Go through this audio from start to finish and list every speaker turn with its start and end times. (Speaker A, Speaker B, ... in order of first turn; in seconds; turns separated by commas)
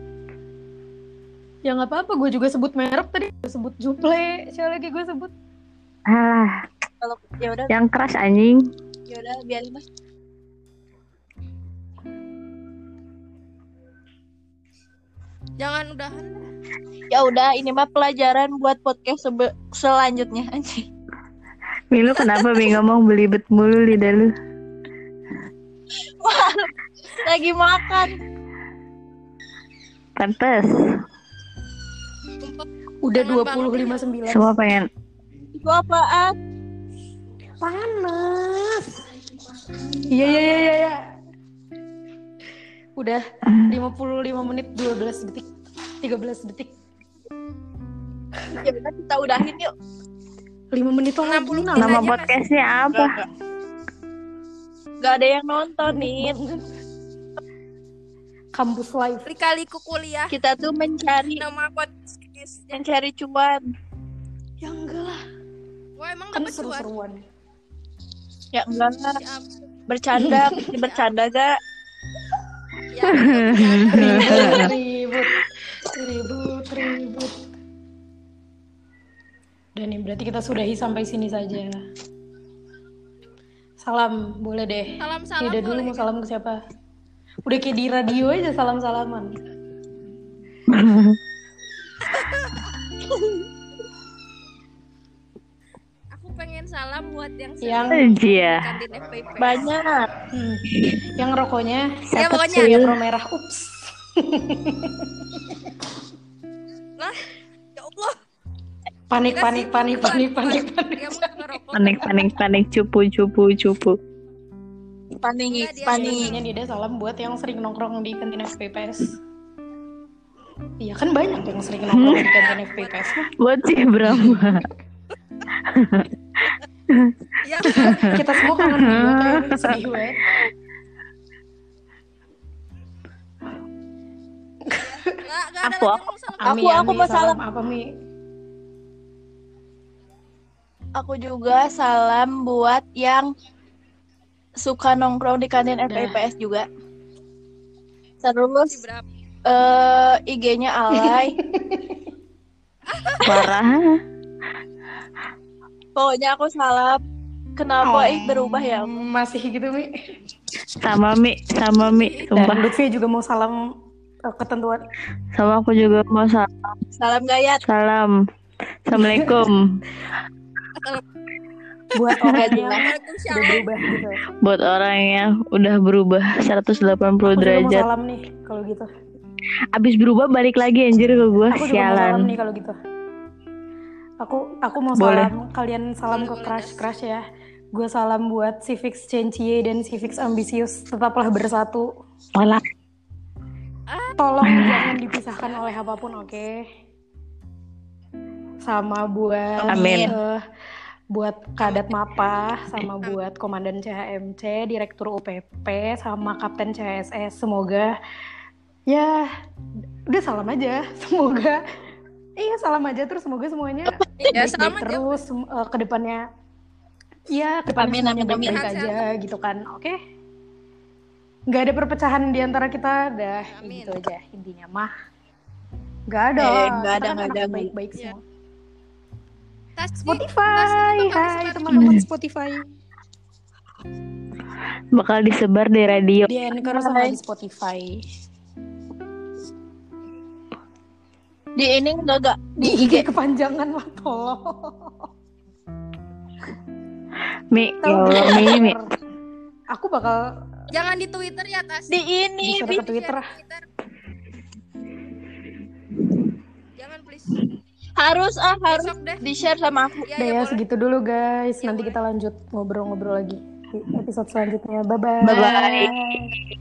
Speaker A: 1.6-5.3, Speaker B: 6.1-6.7, Speaker C: 7.0-7.7, Speaker B: 7.7-8.7, Speaker C: 9.1-9.8, Speaker D: 15.6-16.5, Speaker C: 17.1-20.9, Speaker B: 21.9-24.3, Speaker D: 22.2-22.7, Speaker C: 26.2-28.2, Speaker B: 30.2-31.0, Speaker D: 32.4-34.2, Speaker A: 33.0-34.5, Speaker B: 34.3-34.9, Speaker C: 35.5-36.4, Speaker A: 37.6-39.0, Speaker A: 40.0-41.1, Speaker A: 43.0-45.5, Speaker A: 46.0-46.7, Speaker C: 48.6-49.7, Speaker A: 50.7-52.1, Speaker D: 51.2-52.4, Speaker B: 51.8-53.2, Speaker C: 52.9-53.3, Speaker C: 55.0-56.4, Speaker A: 55.8-56.7, Speaker A: 58.5-59.3, Speaker D: 59.3-60.3, Speaker C: 60.3-61.4, Speaker D: 61.4-62.8, Speaker C: 62.7-63.6, Speaker A: 64.6-65.2, Speaker D: 66.0-66.9, Speaker A: 66.3-67.2, Speaker C: 68.5-69.2, Speaker D: 69.2-69.5, Speaker C: 69.9-71.6, Speaker A: 70.2-70.7, Speaker D: 70.6-71.1, Speaker D: 72.9-74.8, Speaker B: 73.0-74.7, Speaker A: 73.9-77.5, Speaker C: 74.4-74.6, Speaker A: 79.8-81.8, Speaker A: 83.8-86.6, Speaker D: 85.0-86.1, Speaker A: 87.5-89.3, Speaker B: 90.7-91.2, Speaker D: 92.0-92.7, Speaker D: 96.1-99.7, Speaker A: 97.6-98.1, Speaker B: 97.9-98.8, Speaker C: 99.4-100.1, Speaker A: 100.3-102.0, Speaker B: 102.1-103.0, Speaker D: 102.2-102.8, Speaker A: 102.5-105.6, Speaker D: 107.0-107.3, Speaker D: 107.8-108.2, Speaker A: 109.1-111.4, Speaker D: 109.3-112.3, Speaker B: 111.7-114.0, Speaker C: 115.2-116.4, Speaker D: 115.5-116.4, Speaker A: 115.9-119.2, Speaker A: 120.8-123.2, Speaker B: 121.9-122.3, Speaker D: 122.2-123.2, Speaker B: 123.2-124.7, Speaker A: 124.1-124.4, Speaker B: 125.6-126.1, Speaker B: 126.9-129.8, Speaker D: 127.4-128.3, Speaker A: 127.8-130.4, Speaker A: 134.7-135.0, Speaker D: 134.7-136.6, Speaker B: 135.6-136.0, Speaker A: 136.4-137.9, Speaker C: 136.4-137.4, Speaker C: 141.0-143.3, Speaker C: 144.6-146.7, Speaker A: 145.9-146.2, Speaker C: 148.2-148.9, Speaker D: 148.7-149.1, Speaker C: 149.4-151.4, Speaker A: 150.9-152.0, Speaker D: 152.9-153.5, Speaker B: 153.2-154.0, Speaker C: 156.0-157.0, Speaker C: 157.6-159.1, Speaker A: 157.8-160.0, Speaker B: 160.8-162.7, Speaker D: 161.8-162.3, Speaker A: 162.3-163.7, Speaker A: 164.2-164.8, Speaker B: 165.3-166.8, Speaker C: 167.0-167.6, Speaker B: 167.6-168.2, Speaker B: 168.9-169.8, Speaker A: 168.9-169.4, Speaker A: 171.9-174.2, Speaker B: 172.1-172.4, Speaker C: 172.3-172.9, Speaker D: 172.3-173.7, Speaker B: 174.4-177.9, Speaker A: 177.3-178.9, Speaker B: 179.7-182.3, Speaker A: 181.5-182.8, Speaker A: 184.2-191.9, Speaker B: 185.0-185.3, Speaker D: 186.1-186.8, Speaker B: 192.3-192.7, Speaker D: 193.9-194.2, Speaker A: 194.2-196.7, Speaker B: 194.4-194.9, Speaker D: 195.4-196.4, Speaker A: 198.6-200.4, Speaker C: 199.6-200.1, Speaker B: 199.7-200.1, Speaker A: 201.1-207.9, Speaker D: 201.6-201.9, Speaker A: 208.9-209.3, Speaker A: 210.1-211.6, Speaker A: 212.4-216.3, Speaker C: 213.9-214.5, Speaker D: 214.2-215.2, Speaker A: 217.3-220.0, Speaker C: 217.7-218.6, Speaker D: 218.4-219.1, Speaker A: 221.5-224.9, Speaker D: 223.5-224.0, Speaker A: 226.1-228.2, Speaker C: 226.4-227.7, Speaker D: 229.8-232.0, Speaker A: 230.0-232.7, Speaker B: 231.8-232.0, Speaker B: 234.9-236.3, Speaker A: 236.3-238.0, Speaker C: 236.6-237.2, Speaker C: 241.6-243.1, Speaker A: 242.6-245.1, Speaker B: 247.5-248.8, Speaker A: 247.8-248.9, Speaker A: 249.7-250.3, Speaker D: 250.7-252.0, Speaker C: 251.9-252.8, Speaker A: 252.4-253.3, Speaker D: 252.6-253.7, Speaker D: 256.8-257.4, Speaker C: 258.0-260.1, Speaker D: 258.7-259.2, Speaker D: 260.1-260.6, Speaker A: 260.2-266.3, Speaker D: 261.6-262.0, Speaker B: 265.2-266.4, Speaker C: 265.3-265.9